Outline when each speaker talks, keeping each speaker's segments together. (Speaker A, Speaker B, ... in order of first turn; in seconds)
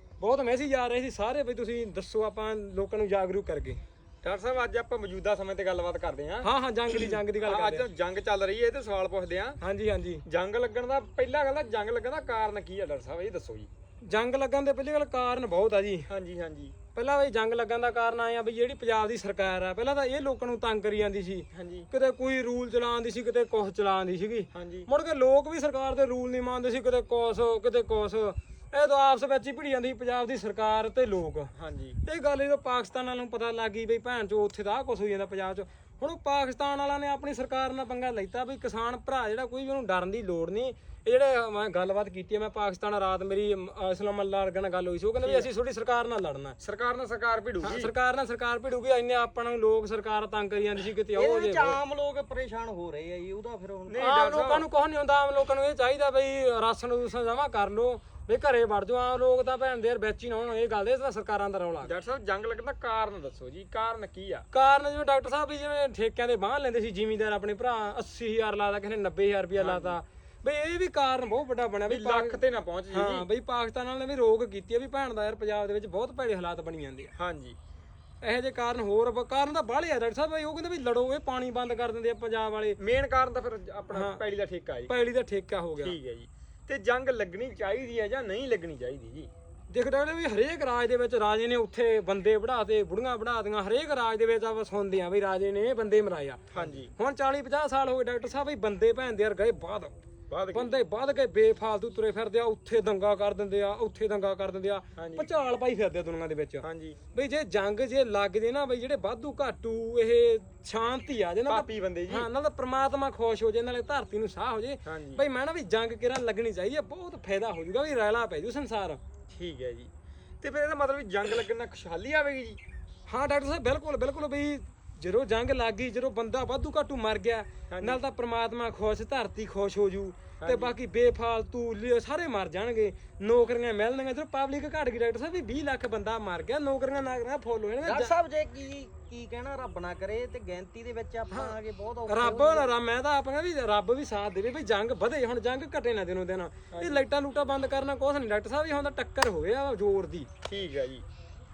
Speaker A: 0.2-3.8, 6.4-7.9, 9.6-10.2, 14.0-16.1, 16.9-31.5, 32.0-46.6, 47.6-51.8, 54.0-61.9, 64.5-72.4, 72.9-77.1, 78.2-82.8, 83.9-84.2, 84.9-86.0, 89.7-100.0, 100.5-119.0, 123.1-138.2, 141.3-141.6, 142.1-150.3
Speaker B: 4.2-9.6, 10.2-13.7, 16.1-16.8, 21.5-21.9, 24.5-24.9, 31.6-32.0, 45.2-45.5, 46.6-47.9, 53.9-54.7, 61.8-64.5, 69.6-70.0, 71.9-73.3, 77.2-77.6, 82.8-84.9, 85.8-89.3, 96.5-96.9, 100.3-100.7, 105.0-105.3, 106.6-107.0, 111.5-112.3, 114.8-115.2, 119.3-122.6, 127.7-128.0, 130.4-130.8, 146.7-147.0, 150.4-151.1
Speaker C: 51.1-54.0, 137.8-142.7